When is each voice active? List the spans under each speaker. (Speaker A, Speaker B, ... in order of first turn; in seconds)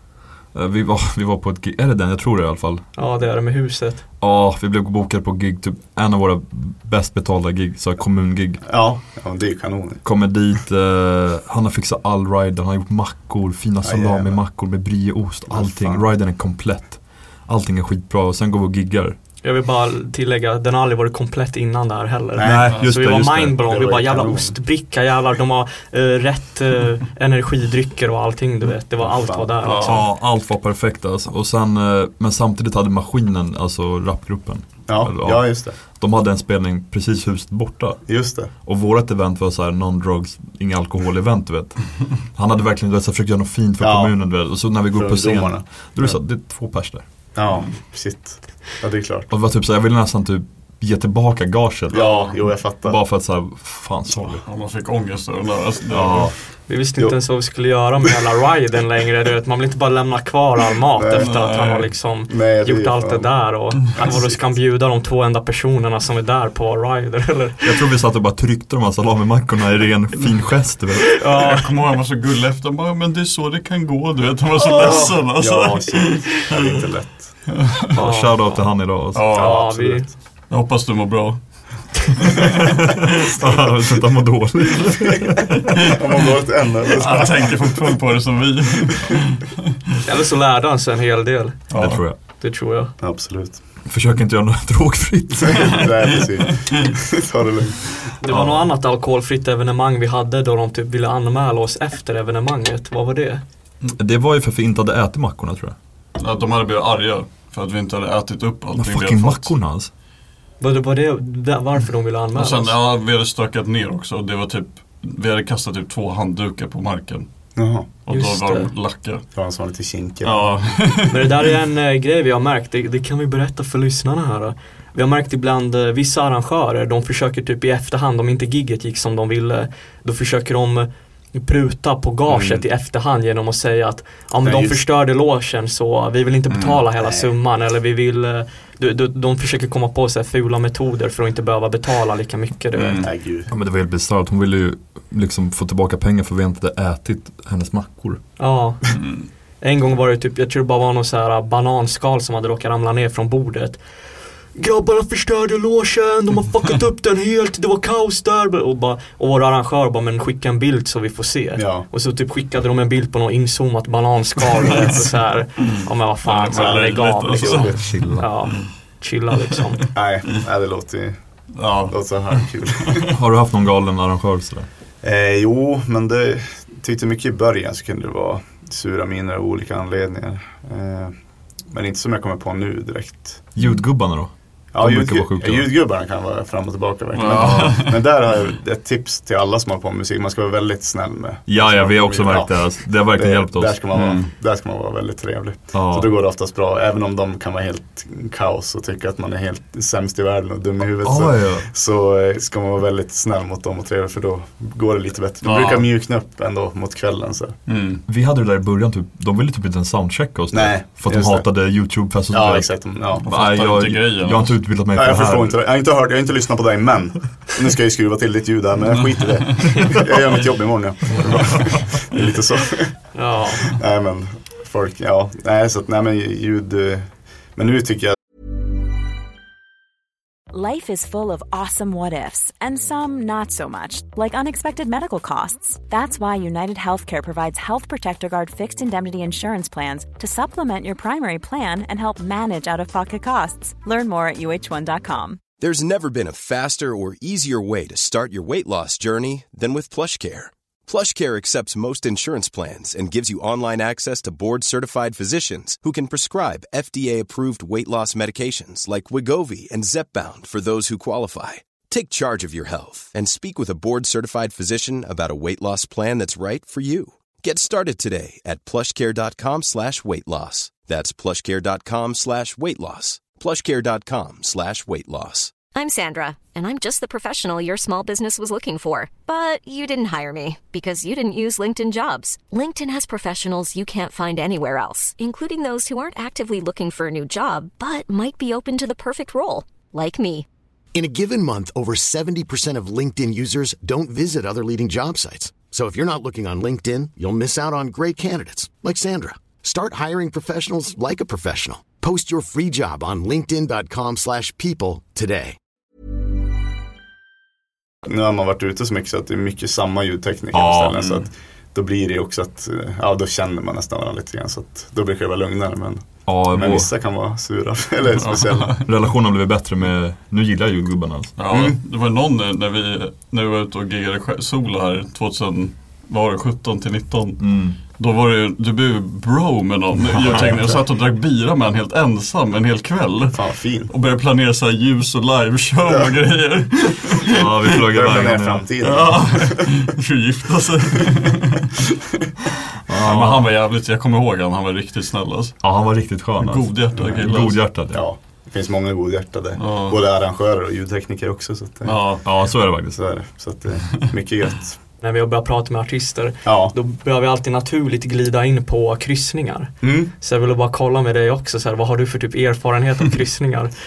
Speaker A: 0.5-2.8, 4.2-8.7, 10.0-19.2, 22.4-23.6, 29.8-47.1, 49.3-54.4, 55.9-56.4, 67.6-71.2, 77.9-79.3, 83.1-85.6, 91.7-92.2, 93.8-96.2, 98.3-98.7, 103.9-105.8, 108.8-109.9, 143.5-148.2, 167.8-168.2, 173.1-174.7, 183.6-185.7, 187.3-187.8, 191.5-194.2, 195.7-196.1, 201.0-201.7, 208.1-215.6, 310.5-310.9, 316.2-316.9, 318.8-321.3, 327.4-327.8, 330.2-330.5, 337.2-338.6, 342.9-343.5, 345.6-348.0, 352.2-353.0
Speaker B: 2.9-4.0, 19.4-30.1, 56.7-67.6, 71.2-71.7, 77.9-80.1, 90.0-92.9, 98.2-103.4, 110.6-112.8, 118.1-118.7, 121.1-143.0, 148.4-169.8, 223.1-223.6, 355.0-363.7
Speaker C: 8.6-10.0, 13.8-14.4, 15.5-16.1, 22.4-22.9, 23.5-24.6, 29.0-29.5, 34.9-35.8, 38.0-38.5, 43.8-46.2, 47.3-49.3, 51.9-53.0, 61.0-61.3, 62.3-64.5, 74.7-77.5, 79.3-80.2, 85.9-87.7, 93.0-93.6, 95.5-98.1, 117.5-117.9, 119.3-120.6, 132.3-132.6, 134.4-134.8, 137.0-137.3, 143.0-143.5, 161.6-161.9, 166.5-167.9, 169.9-173.1, 175.0-181.1, 181.7-183.6, 184.7-207.6, 210.5-213.2, 214.9-228.2, 308.0-318.8, 321.5-321.8, 330.4-330.7, 333.3-333.9, 337.9-339.6, 347.0-354.8, 356.4-356.7, 359.8-360.1
Speaker D: 29.6-30.1, 54.2-56.4, 61.2-62.0, 71.2-76.8, 77.6-78.0, 79.1-79.7, 80.5-82.1, 86.9-89.2, 91.7-92.1, 106.2-109.5, 112.3-119.3, 120.2-121.3, 136.5-136.8, 142.7-143.1, 148.9-149.3, 164.6-165.1, 165.6-168.7, 171.6-173.1, 187.1-188.0, 193.9-194.3, 205.4-205.9, 207.7-208.0, 213.2-214.7, 310.9-311.3, 318.1-318.8, 321.4-337.6, 338.8-341.7, 343.0-347.7, 349.6-350.0, 351.8-352.2
Speaker E: 230.5-245.4
Speaker F: 245.6-275.6
Speaker G: 275.7-290.4
Speaker H: 290.9-305.6